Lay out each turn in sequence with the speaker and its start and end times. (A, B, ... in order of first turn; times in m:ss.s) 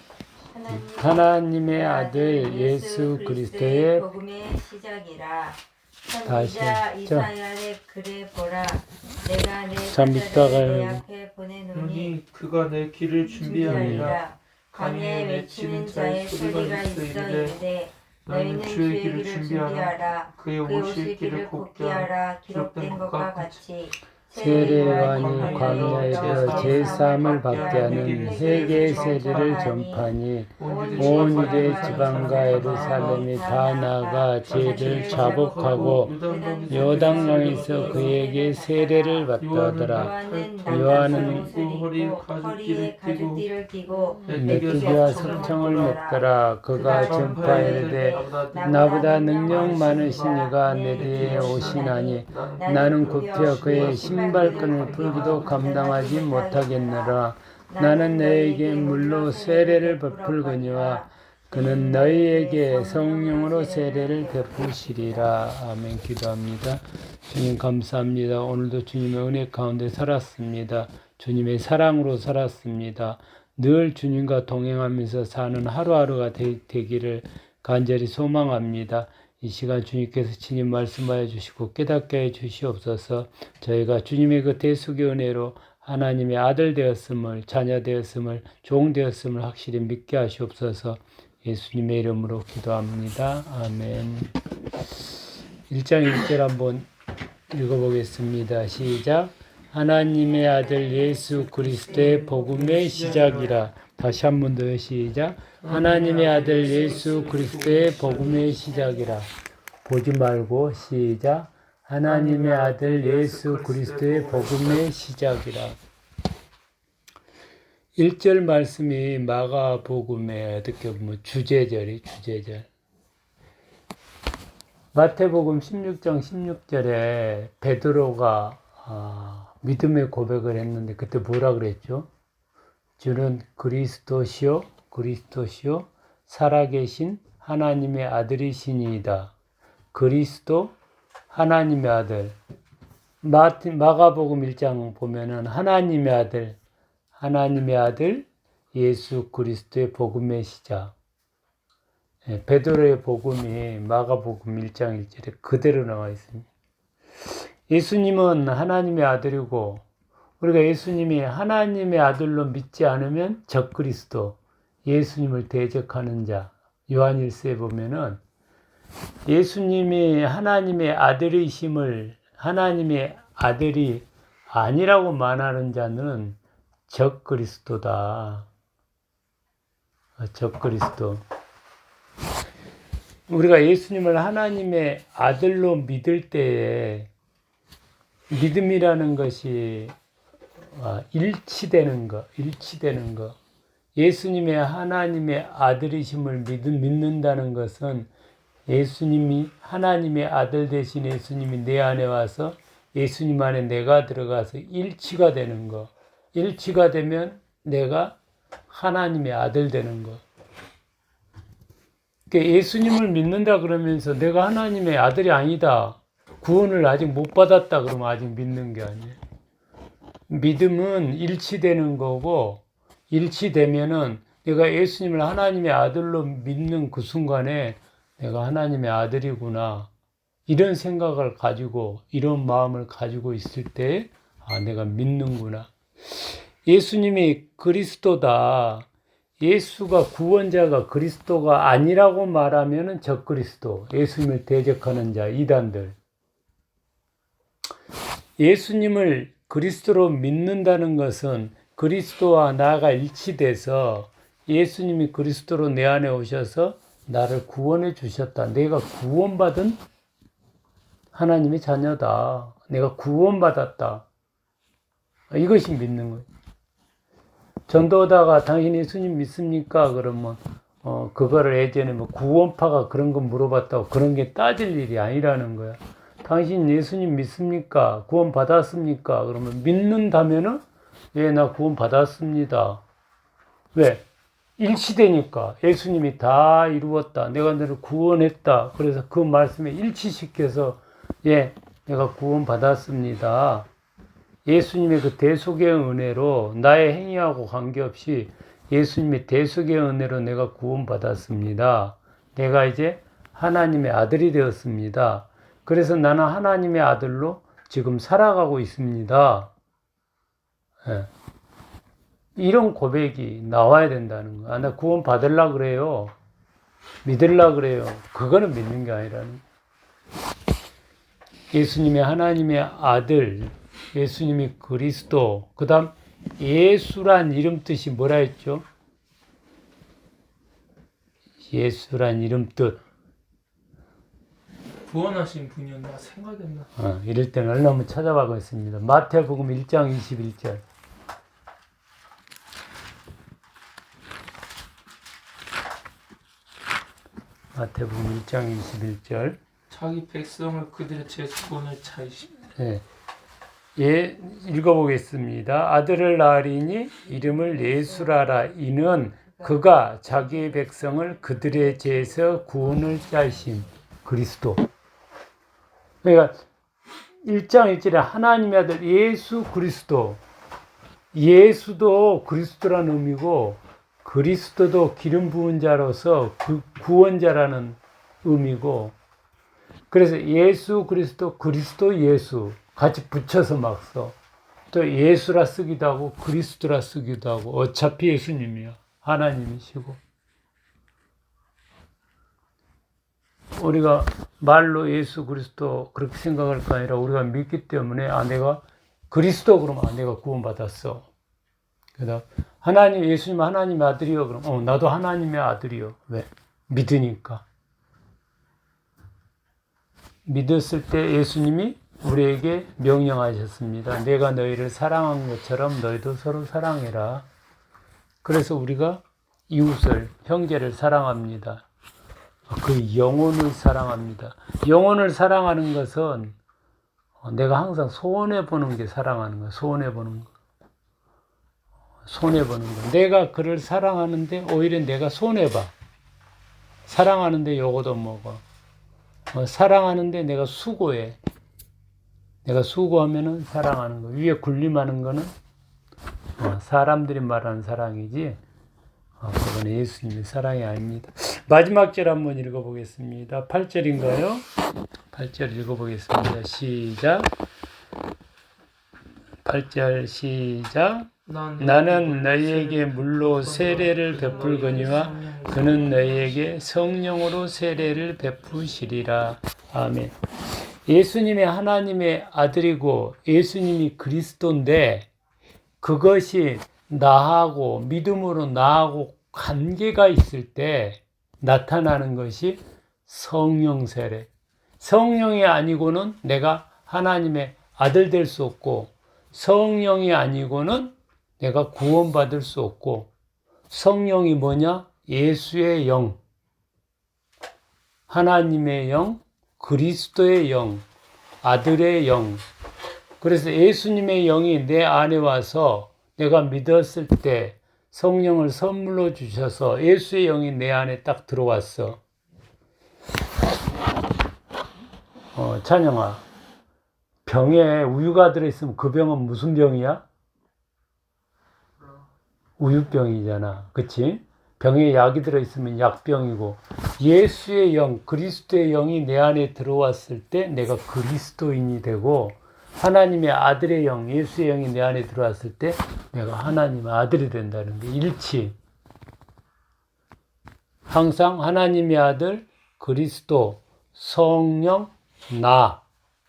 0:00.5-0:12.2 A
0:00.7-0:04.1 B
0:06.2-0:07.3 B
0:09.8-0:11.0 B
0:11.7-0:14.2 C
0:13.3-0:30.1 A
0:13.7-0:14.2 B
0:14.7-0:17.6 C
0:18.2-0:23.6 C
0:24.3-0:36.2 B
0:24.3-0:29.7 C
0:30.6-0:33.3 C
0:30.6-0:39.3 A
0:34.5-0:38.2 C
0:36.7-0:40.1 B
0:39.4-0:43.4 C
0:39.9-0:57.2 A
0:40.7-0:41.5 B
0:44.2-0:46.0 C
0:44.3-1:34.4 B
0:46.8-0:55.9 C
0:57.7-1:05.3 A
1:35.7-1:36.9 B
1:37.5-1:49.3 B
1:42.2-1:43.6 C
1:45.6-1:48.5 C
1:48.6-1:49.0 A
1:49.8-1:55.8 B
1:52.0-1:54.8 C
1:58.0-2:02.7 B
2:04.9-2:12.1 B
2:13.0-2:19.3 B
2:19.9-2:20.7 B
2:21.3-2:22.4 B
2:23.2-2:26.6 B
2:27.2-2:30.9 B
2:32.2-2:36.5 B
2:37.7-2:39.8 B
2:40.4-2:48.2 B
2:49.2-2:58.5 B
3:00.2-3:01.2 B
3:03.3-3:07.1 B
3:08.3-3:10.0 B
3:10.6-3:13.4 B
3:14.0-3:18.1 B
3:18.7-3:28.2 B
3:28.7-3:30.2 B
3:32.3-3:39.2 B
3:40.3-3:49.9 B
3:50.5-3:58.9 B
3:59.4-4:06.0 B
4:08.4-4:19.8 B
4:21.1-4:24.0 B
4:25.3-4:26.3 B
4:27.7-4:40.6 B
4:41.1-4:42.8 B
4:43.7-4:44.0 B
4:44.6-4:53.7 B
4:54.4-5:09.5 B
5:10.8-5:11.1 B
5:12.4-5:16.1 B
5:17.0-5:19.4 B
5:21.5-5:28.6 B
5:31.5-5:32.8 B
5:34.8-5:36.7 C
5:36.8-5:40.6 B
5:47.5-5:49.4 B
5:49.7-5:52.5 C
5:52.5-5:52.8 B
5:53.8-6:04.6 B
6:06.0-6:06.4 B
6:07.2-6:10.2 B
6:11.1-6:19.0 B
6:19.9-6:24.2 B
6:24.7-6:30.0 B
6:33.5-6:41.1 B
6:42.0-6:47.4 B
6:50.2-6:57.3 B
6:58.2-7:01.6 B
7:02.5-7:06.4 B
7:07.2-7:10.3 B
7:12.0-7:15.7 B
7:16.9-7:18.4 B
7:19.3-7:21.2 B
7:22.4-7:25.3 B
7:26.4-7:28.4 B
7:29.2-7:34.4 B
7:35.1-7:37.3 B
7:39.4-7:50.2 B
7:41.2-7:46.0 C
7:50.8-7:55.1 B
7:55.8-8:13.1 B
8:13.7-8:16.2 B
8:18.1-8:20.8 B
8:21.4-8:22.4 B
8:23.2-8:32.0 B
8:35.3-8:36.2 B
8:37.2-8:40.0 B
8:42.6-8:58.6 B
9:00.9-9:05.8 B